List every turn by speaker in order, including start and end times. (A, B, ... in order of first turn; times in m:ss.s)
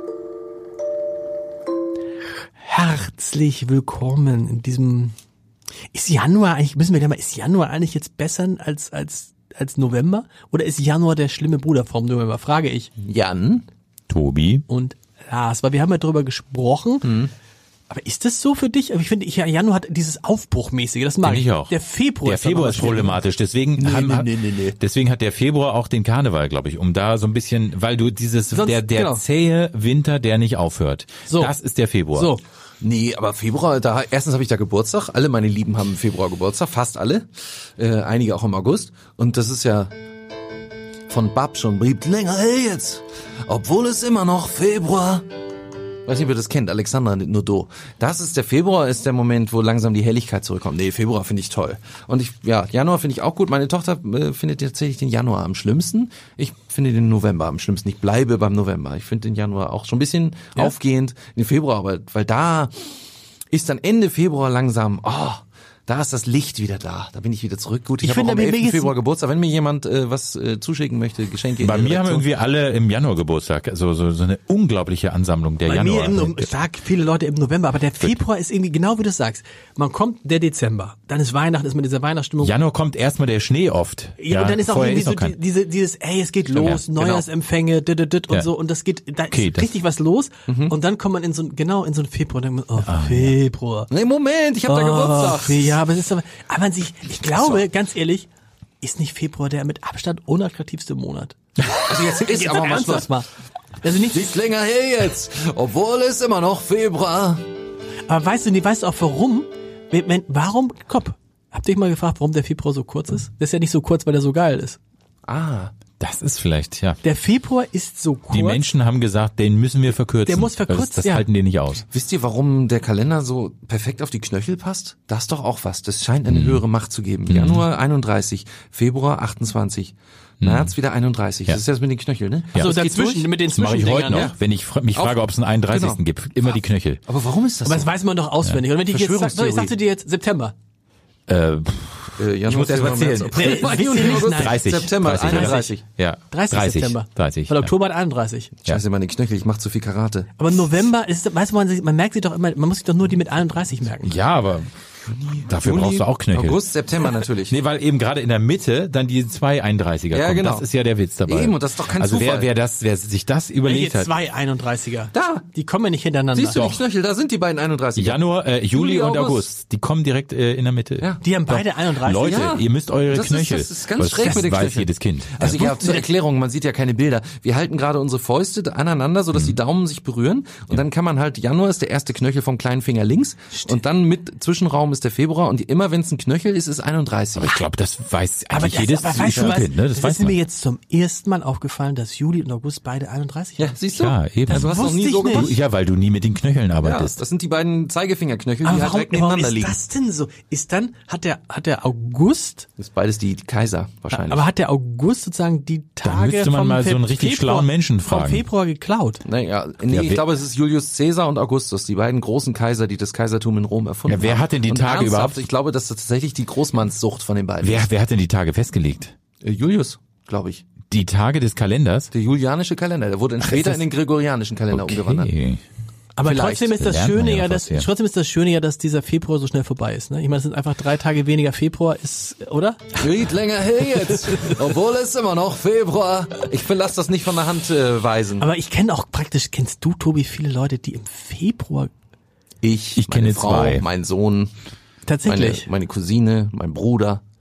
0:02.6-0:05.1 A
0:05.9-0:12.9 A
0:13.0-0:13.6 B
0:14.1-0:14.6 C
0:14.7-0:17.2 A
0:17.0-0:17.3 B
0:17.9-0:23.2 A
0:21.2-0:32.3 C
0:23.8-0:24.7 A
0:28.5-0:29.2 A
0:31.3-0:31.5 A
0:32.1-0:32.4 A
0:32.8-0:37.3 B
0:37.8-0:39.9 B
0:41.1-0:45.2 B
0:46.0-1:02.7 B
1:03.5-1:12.3 B
1:08.0-1:08.9 A
1:11.6-1:16.5 C
1:15.6-1:22.6 A
1:22.4-1:25.4 C
1:24.2-1:33.9 A
1:26.5-1:27.3 B
1:26.6-1:26.9 C
1:29.3-1:29.7 C
1:30.5-1:30.7 B
1:32.8-1:33.4 C
1:33.9-1:35.8 B
1:34.6-1:38.3 A
1:38.8-1:43.3 A
1:41.7-1:43.1 B
1:43.8-1:44.3 A
1:44.1-1:47.4 B
1:48.1-1:54.8 A
1:55.2-1:55.7 B
1:56.0-1:57.0 C
1:57.0-1:58.7 A
1:58.3-2:01.8 C
2:00.2-2:01.3 A
2:01.9-2:13.4 B
2:06.3-2:06.6 C
2:07.3-2:07.6 C
2:10.4-2:10.7 C
2:12.5-2:14.3 A
2:13.5-2:17.0 C
2:14.1-2:14.4 B
2:14.9-2:17.9 B
2:17.6-2:20.5 A
2:18.7-2:19.7 B
2:21.3-2:27.7 C
2:22.2-2:25.8 B
2:23.3-2:24.6 A
2:25.2-2:25.8 A
2:26.3-2:28.5 A
2:28.6-2:30.3 B
2:30.4-2:34.2 A
2:34.0-2:34.7 C
2:35.1-2:37.6 B
2:35.4-2:44.1 C
2:40.1-2:40.7 B
2:41.2-2:42.5 B
2:43.6-2:46.6 A
2:45.1-2:45.4 B
2:46.3-2:49.5 B
2:46.5-2:46.8 C
2:48.0-2:55.7 C
2:51.2-2:52.6 A
2:52.2-3:07.6 B
2:55.5-2:56.0 A
3:07.4-3:10.4 C
3:08.5-3:13.7 A
3:09.2-3:09.6 B
3:13.6-3:15.6 B
3:14.0-3:17.2 C
3:14.5-3:15.6 A
3:16.8-3:19.8 B
3:18.6-3:22.7 A
3:22.8-3:24.5 B
3:24.1-3:29.2 A
3:26.0-3:28.4 C
3:29.2-3:37.9 B
3:29.9-3:30.2 C
3:34.1-3:35.5 C
3:37.6-3:39.1 C
3:39.4-3:40.7 B
3:40.9-3:42.1 C
3:42.1-3:45.3 B
3:44.7-3:45.6 C
3:46.2-3:52.9 A
3:46.2-3:46.9 B
3:46.8-3:47.9 C
3:53.0-3:58.5 B
3:58.4-4:01.9 A
4:02.6-4:04.5 B
4:02.9-4:03.8 C
4:05.0-4:05.7 A
4:05.2-4:07.2 B